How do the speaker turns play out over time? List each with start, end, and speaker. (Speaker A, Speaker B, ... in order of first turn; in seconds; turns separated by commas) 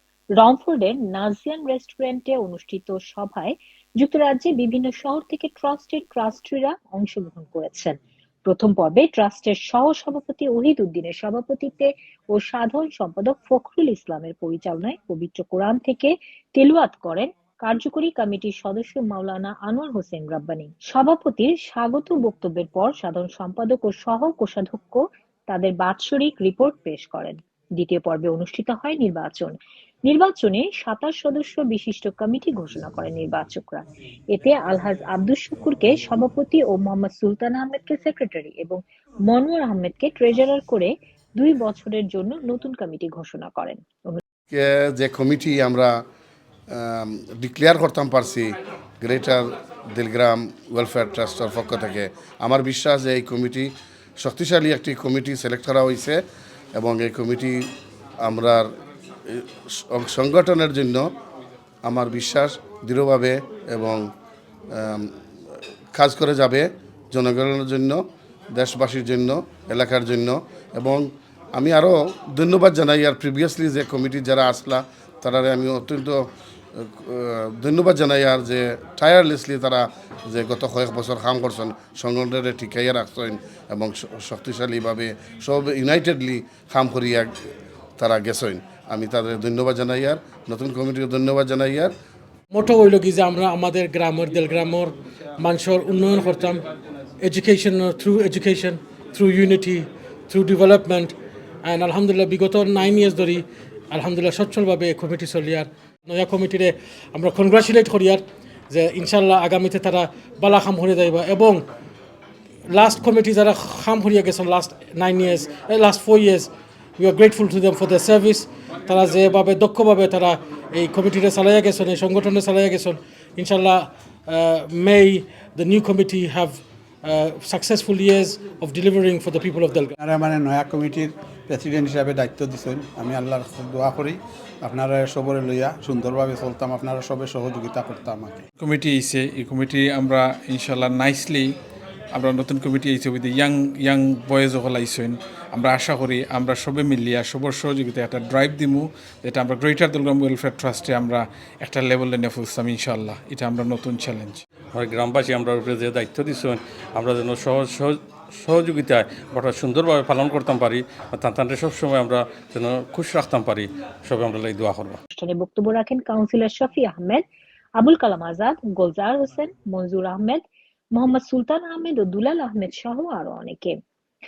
Speaker A: 0.4-7.9, Speaker A: 8.4-29.5, Speaker A: 30.1-44.2, Speaker B: 44.5-45.9, Speaker B: 46.7-56.2, Speaker B: 56.8-57.6, Speaker B: 58.2-58.7, Speaker B: 59.3-61.0, Speaker B: 61.8-64.0, Speaker B: 64.7-65.1, Speaker B: 65.9-68.0, Speaker B: 68.5-76.2, Speaker B: 76.8-87.3, Speaker B: 88.0-91.9, Speaker C: 92.5-96.6, Speaker C: 97.2-101.1, Speaker C: 101.6-111.6, Speaker C: 112.7-129.9, Speaker D: 130.0-138.4, Speaker E: 138.6-141.5, Speaker E: 142.1-154.4, Speaker F: 154.8-164.9, Speaker A: 165.1-167.2, Speaker A: 167.8-170.4, Speaker A: 170.9-173.8